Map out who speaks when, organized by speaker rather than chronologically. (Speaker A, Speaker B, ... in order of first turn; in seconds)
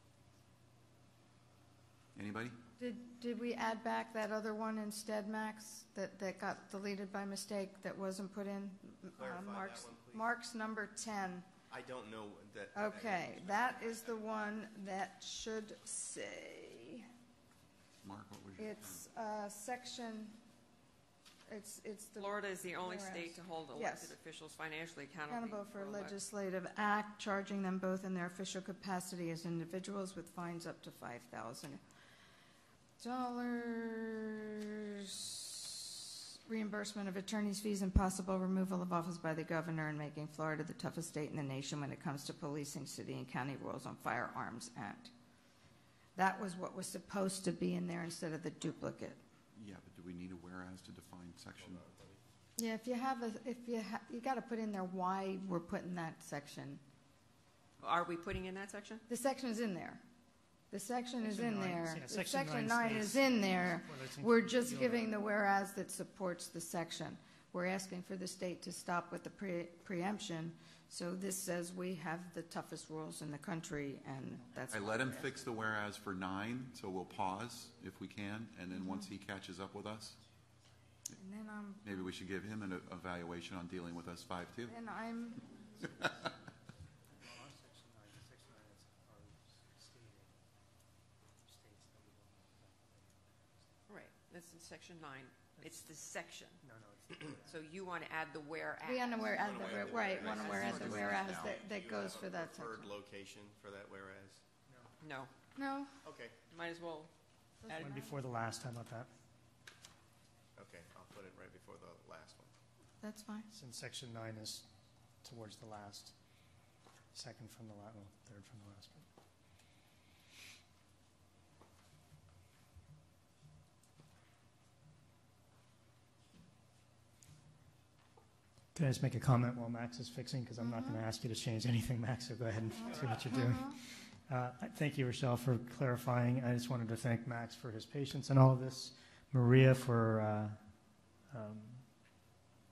Speaker A: 2.1-2.6, 18.0-19.0, 49.5-51.8, 74.7-80.2, 81.8-84.8, 99.6-101.6
Speaker B: 2.8-11.5, 12.7-17.1, 18.6-20.4, 21.5-24.1, 25.3-31.8, 33.0-45.1, 46.1-49.2, 52.6-56.8, 59.1-60.0, 60.7-75.4, 78.7-79.0, 81.1-81.9, 84.7-85.4, 98.8-102.9, 105.5-106.0, 107.6-108.2, 113.0-113.5, 130.6-131.0, 133.3-133.8
Speaker C: 9.2-10.3, 11.7-14.2, 51.6-52.2, 99.3-104.4, 106.0-106.4, 110.5-112.5, 132.9-133.3
Speaker D: 22.1-26.1, 57.8-59.0, 93.9-96.6, 97.5-101.5, 105.0-105.3, 106.5-107.1, 107.7-108.0
Speaker E: 61.2-65.2, 85.6-86.3, 87.1-90.4, 91.4-93.8, 95.6-95.9, 96.6-97.6, 107.7-109.1, 113.5-114.7, 115.2-116.1, 117.1-119.0, 128.7-140.6, 141.3-141.8